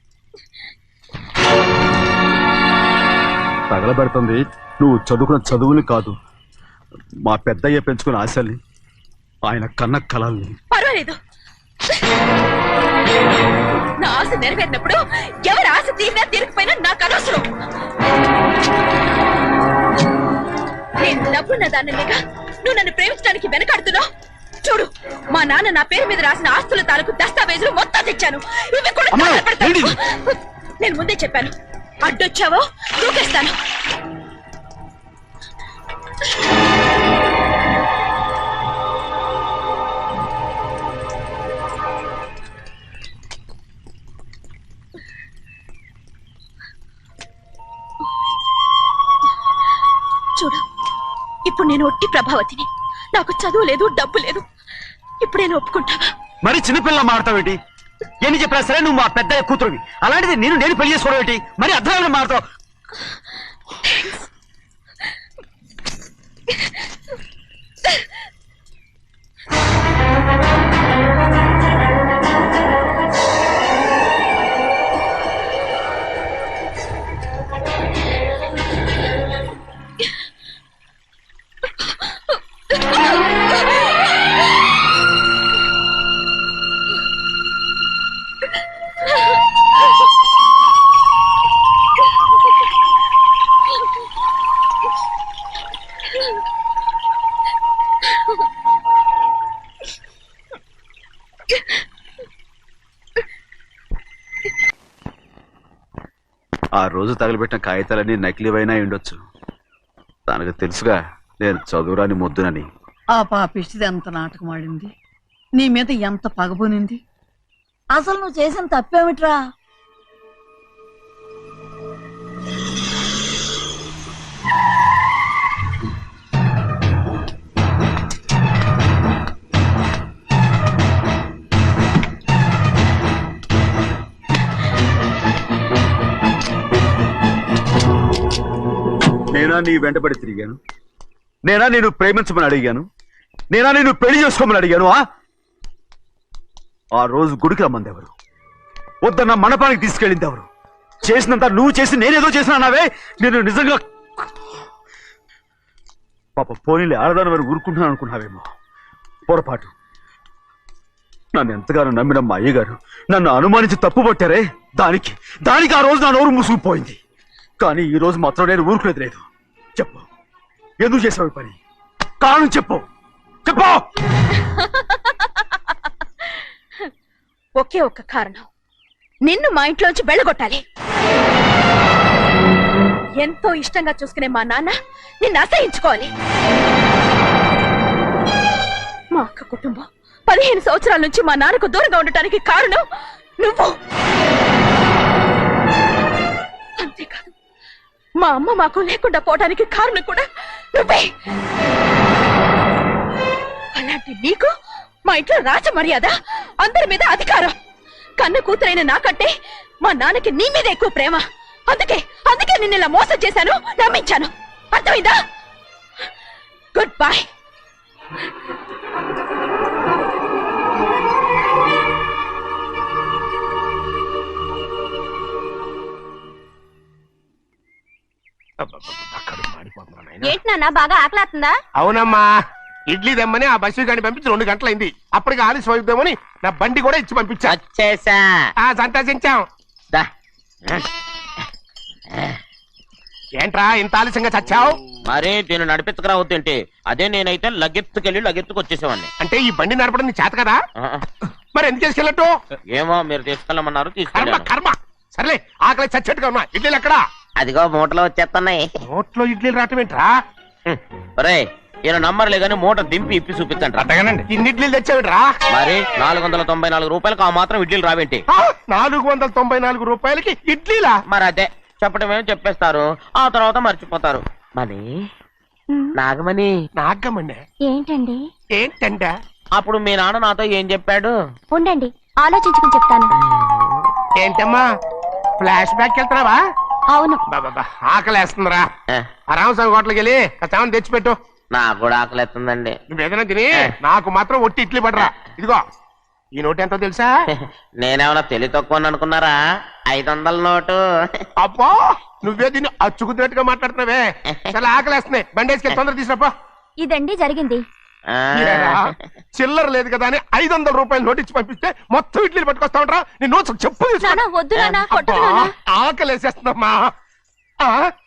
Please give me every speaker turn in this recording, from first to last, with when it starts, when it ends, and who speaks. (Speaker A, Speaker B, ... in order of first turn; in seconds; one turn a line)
Speaker A: 3.7-6.2
Speaker A: 7.2-8.6
Speaker A: 9.5-10.6
Speaker B: 10.7-11.2
Speaker B: 14.0-17.5
Speaker B: 21.0-24.1
Speaker B: 24.6-31.5
Speaker A: 29.1-29.9
Speaker B: 32.0-33.6
Speaker B: 50.4-50.6
Speaker B: 51.5-54.5
Speaker B: 55.2-56.0
Speaker A: 56.4-57.6
Speaker A: 58.2-62.4
Speaker A: 106.8-109.2
Speaker A: 110.3-112.7
Speaker C: 113.2-114.9
Speaker C: 115.6-117.0
Speaker C: 118.0-119.4
Speaker A: 139.3-140.6
Speaker A: 141.5-142.9
Speaker A: 143.5-145.0
Speaker A: 146.9-148.1
Speaker A: 149.0-150.5
Speaker A: 151.0-154.3
Speaker A: 156.4-158.5
Speaker A: 159.3-159.7
Speaker A: 161.3-167.0
Speaker A: 167.6-169.2
Speaker A: 169.8-170.1
Speaker A: 170.8-171.6
Speaker A: 172.2-172.8
Speaker A: 173.5-173.8
Speaker B: 174.4-175.4
Speaker B: 177.6-178.5
Speaker B: 179.3-180.6
Speaker B: 183.2-186.1
Speaker B: 189.2-192.8
Speaker B: 193.4-193.8
Speaker B: 196.8-197.3
Speaker B: 198.2-201.1
Speaker B: 203.8-204.5
Speaker B: 205.1-207.6
Speaker B: 208.2-209.3
Speaker B: 209.8-215.2
Speaker B: 216.7-217.3
Speaker D: 228.6-230.3
Speaker E: 230.2-231.5
Speaker D: 231.8-232.2
Speaker D: 232.9-237.6
Speaker F: 237.5-238.5
Speaker D: 238.7-239.4
Speaker D: 243.4-244.7
Speaker F: 245.1-249.1
Speaker D: 249.2-250.6
Speaker F: 250.8-251.1
Speaker D: 251.6-252.3
Speaker F: 252.7-254.5
Speaker D: 254.2-257.0
Speaker F: 257.4-258.6
Speaker D: 258.9-260.1
Speaker F: 260.7-263.9
Speaker D: 264.0-265.3
Speaker F: 265.5-268.2
Speaker D: 268.3-271.0
Speaker F: 271.1-274.9
Speaker F: 276.0-276.5
Speaker D: 276.8-277.4
Speaker E: 277.7-278.2
Speaker D: 278.6-279.1
Speaker F: 279.6-281.1
Speaker E: 281.5-283.1
Speaker F: 283.4-283.6
Speaker D: 284.2-284.6
Speaker D: 285.4-286.4
Speaker E: 286.9-287.2
Speaker D: 287.3-288.7
Speaker D: 289.3-291.2
Speaker F: 291.5-292.8
Speaker D: 292.9-295.6
Speaker D: 296.4-297.1
Speaker F: 297.4-299.4
Speaker F: 299.9-301.3
Speaker D: 301.4-306.3
Speaker E: 306.8-307.6
Speaker F: 308.1-308.9
Speaker D: 308.4-314.2
Speaker E: 314.0-315.5
Speaker D: 314.9-316.9
Speaker D: 317.6-317.9